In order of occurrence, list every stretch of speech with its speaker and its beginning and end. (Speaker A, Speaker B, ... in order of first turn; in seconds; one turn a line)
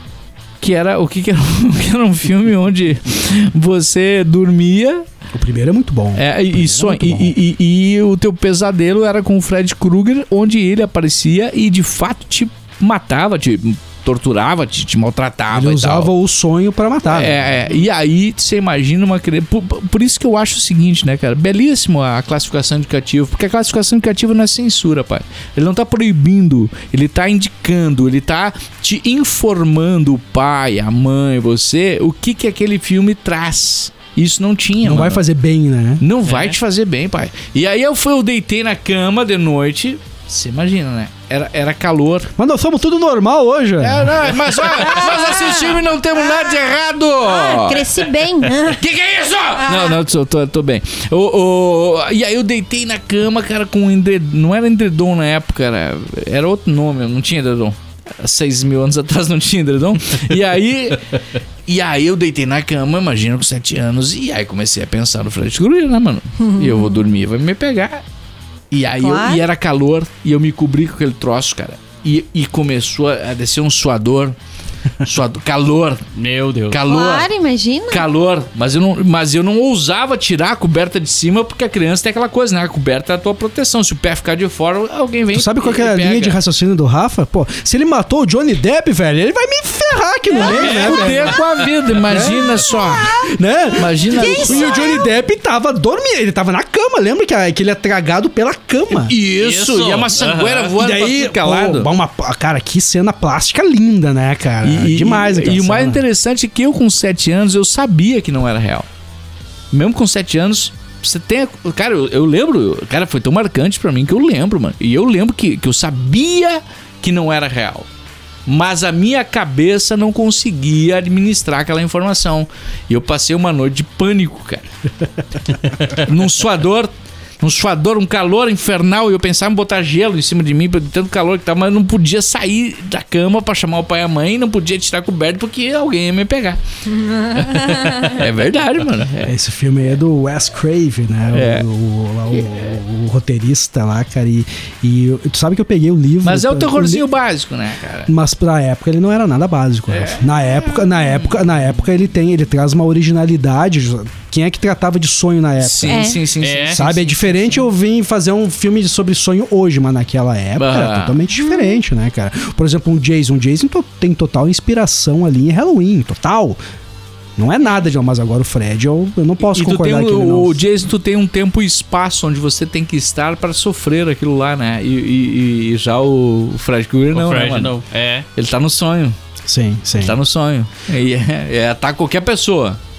Speaker A: 0.6-5.0
Speaker B: 5.3-7.3
Speaker A: 6.2-16.1
Speaker B: 15.5-17.6
Speaker A: 17.1-35.2
Speaker B: 34.8-36.0
Speaker A: 36.0-42.3
Speaker C: 36.2-36.5
Speaker B: 42.4-45.0
Speaker A: 43.8-61.0
Speaker D: 46.1-46.6
Speaker D: 47.2-48.8
Speaker D: 49.6-50.0
Speaker A: 61.7-68.0
Speaker D: 66.4-67.0
Speaker A: 68.7-74.3
Speaker D: 69.0-69.4
Speaker A: 75.0-76.0
Speaker C: 76.2-76.8
Speaker A: 76.7-77.3
Speaker D: 76.8-78.0
Speaker A: 77.9-86.4
Speaker B: 85.3-91.4
Speaker A: 90.4-93.1
Speaker C: 90.4-91.7
Speaker B: 92.0-99.2
Speaker D: 92.7-93.3
Speaker A: 93.8-94.9
Speaker D: 94.1-95.1
Speaker A: 98.9-101.9
Speaker C: 99.3-100.7
Speaker B: 100.8-106.0
Speaker A: 104.6-108.8
Speaker A: 109.7-117.9
Speaker A: 118.5-124.6
Speaker A: 125.5-139.3
Speaker D: 137.1-138.1
Speaker B: 139.2-147.0
Speaker A: 141.3-141.6
Speaker A: 146.2-148.1
Speaker B: 148.1-166.6
Speaker A: 149.9-150.2
Speaker A: 150.8-151.3
Speaker A: 155.6-157.6
Speaker D: 155.9-156.2
Speaker C: 156.4-156.8
Speaker A: 160.6-161.2
Speaker D: 161.3-161.8
Speaker B: 167.4-170.6
Speaker A: 169.4-177.8
Speaker C: 177.1-178.2
Speaker A: 178.3-179.2
Speaker B: 179.5-180.2
Speaker A: 180.0-182.8